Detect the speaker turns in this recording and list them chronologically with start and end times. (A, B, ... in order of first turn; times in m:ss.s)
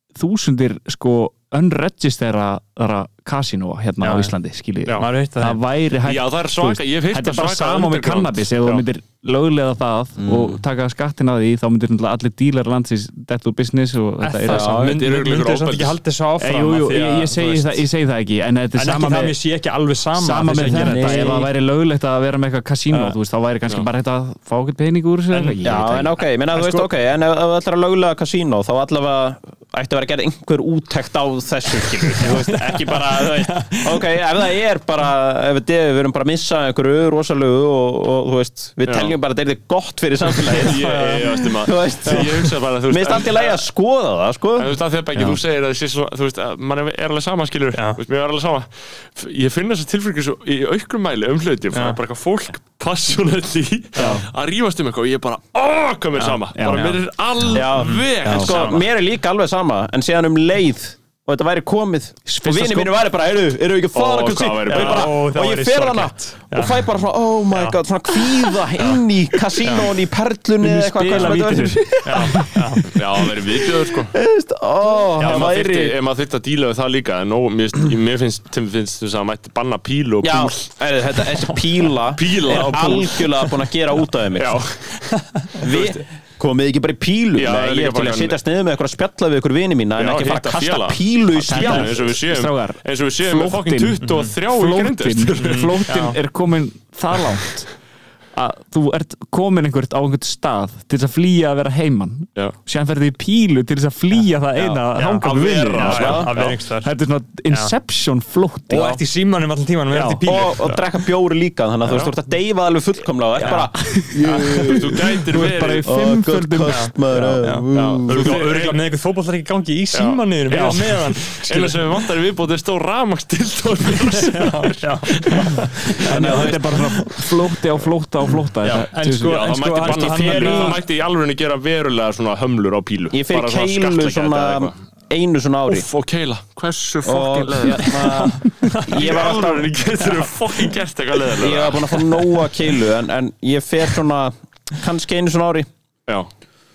0:00.2-0:14.8 A
0:04.0-0:04.3 B
0:05.0-0:05.6 B
0:06.0-0:08.8 C
0:10.2-0:10.6 D
0:14.2-0:17.8 B
0:14.5-0:15.0 D
0:14.7-0:16.0 C
0:16.4-0:19.4 A
0:18.8-0:21.5 B
0:20.2-0:26.2 A
0:20.7-0:21.5 D
0:25.3-0:25.6 B
0:25.6-0:44.8 D
0:26.5-0:26.9 B
0:32.1-0:34.2 B
0:38.9-0:39.1 C
0:40.4-0:43.6 C
0:40.5-0:41.5 B
0:42.0-0:42.5 B
0:44.6-0:58.8 C
0:45.2-0:45.4 A
0:47.7-0:48.0 B
0:51.7-0:52.0 B
0:54.0-0:54.2 B
0:54.0-0:54.3 A
0:56.2-0:57.0 B
0:56.6-0:57.5 A
0:57.5-1:15.9 D
0:57.7-0:58.8 B
0:58.2-0:58.5 A
1:02.3-1:02.9 A
1:03.9-1:05.2 C
1:04.7-1:06.8 B
1:07.5-1:09.9 B
1:10.6-1:12.8 A
1:11.1-1:12.9 B
1:12.9-1:14.1 C
1:15.2-1:15.6 B
1:15.2-1:21.3 C
1:20.2-1:24.6 D
1:22.1-1:23.5 C
1:24.3-1:25.0 C
1:25.3-1:25.6 B
1:25.6-1:32.1 D
1:25.6-1:25.9 C
1:27.4-1:28.4 C
1:30.0-1:35.9 C
1:31.5-1:37.7 A
1:34.0-1:34.3 B
1:35.4-1:36.2 B
1:38.3-1:49.0 A
1:44.6-1:46.9 B
1:45.2-1:46.6 C
1:45.9-1:46.3 D
1:48.7-1:50.8 B
1:48.7-1:49.0 D
1:49.9-1:50.2 A
1:50.2-1:55.1 D
1:53.4-1:54.6 B
1:53.4-1:54.7 A
1:54.7-1:55.9 C
1:55.3-1:57.4 A
1:55.8-1:58.4 D
1:56.7-2:01.9 B
1:57.7-1:58.8 C
1:59.9-2:05.8 C
2:04.0-2:07.3 B
2:06.0-2:06.8 D
2:06.0-2:09.5 A
2:08.6-2:10.8 B
2:09.3-2:14.8 C
2:13.1-2:15.9 D
2:15.7-2:18.2 C
2:17.0-2:19.7 D
2:17.9-2:19.4 B
2:18.9-2:22.0 C
2:21.4-2:25.7 D